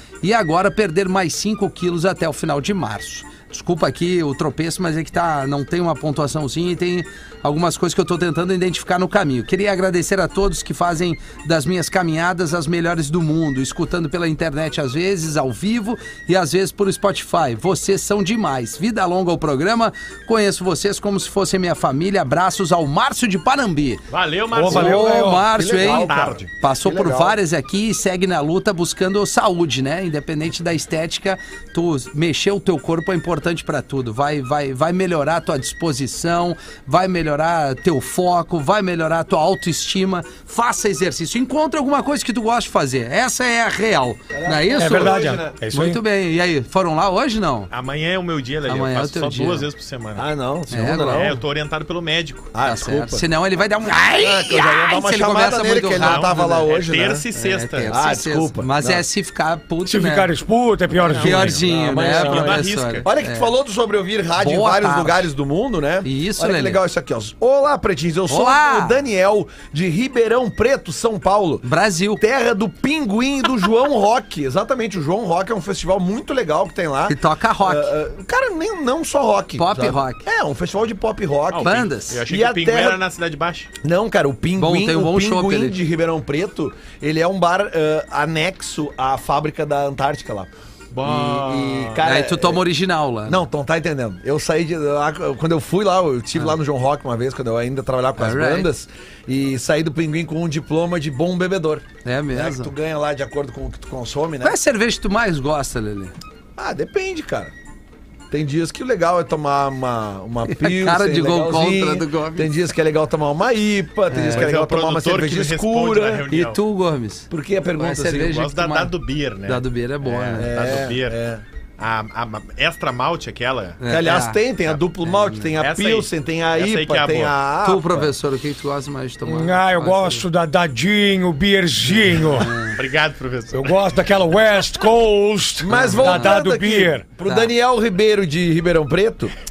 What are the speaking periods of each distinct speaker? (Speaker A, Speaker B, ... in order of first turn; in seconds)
Speaker A: 0.2-24.0, 24.7-47.7, 48.7-49.7, 50.7-51.3, 52.6-56.7, 57.4-60.3, 61.1-63.5, 64.4-65.2, 66.0-66.8, 68.3-69.0, 71.6-72.2, 77.1-77.9, 79.6-80.2, 81.6-82.2, 84.5-85.8, 92.0-93.4, 98.2-98.7, 102.0-102.7, 104.4-106.1, 110.5-112.5, 114.1-114.5, 116.3-118.9, 119.5-120.5, 123.8-124.4, 125.0-125.5, 127.6-130.2, 132.2-132.7, 135.7-136.4, 137.2-137.5
Speaker B: 24.1-26.4, 47.7-50.3, 51.1-52.5, 56.0-57.9, 61.0-63.0, 81.5-83.7, 90.9-92.0, 114.2-116.6, 118.2-121.2, 121.8-123.8, 125.6-127.3, 132.7-133.8
Speaker C: 24.5-25.5, 44.8-46.0, 59.9-61.6, 129.2-132.6, 133.5-137.0
Speaker D: 25.2-27.4, 44.3-45.5, 50.2-51.4, 52.5-53.2, 54.2-57.2, 57.9-59.0, 61.5-71.7, 72.2-83.0, 83.8-90.5, 91.0-92.6, 93.3-104.5, 106.6-107.5, 108.3-116.2, 117.3-118.3, 120.3-121.4, 123.9-128.1, 135.6-139.3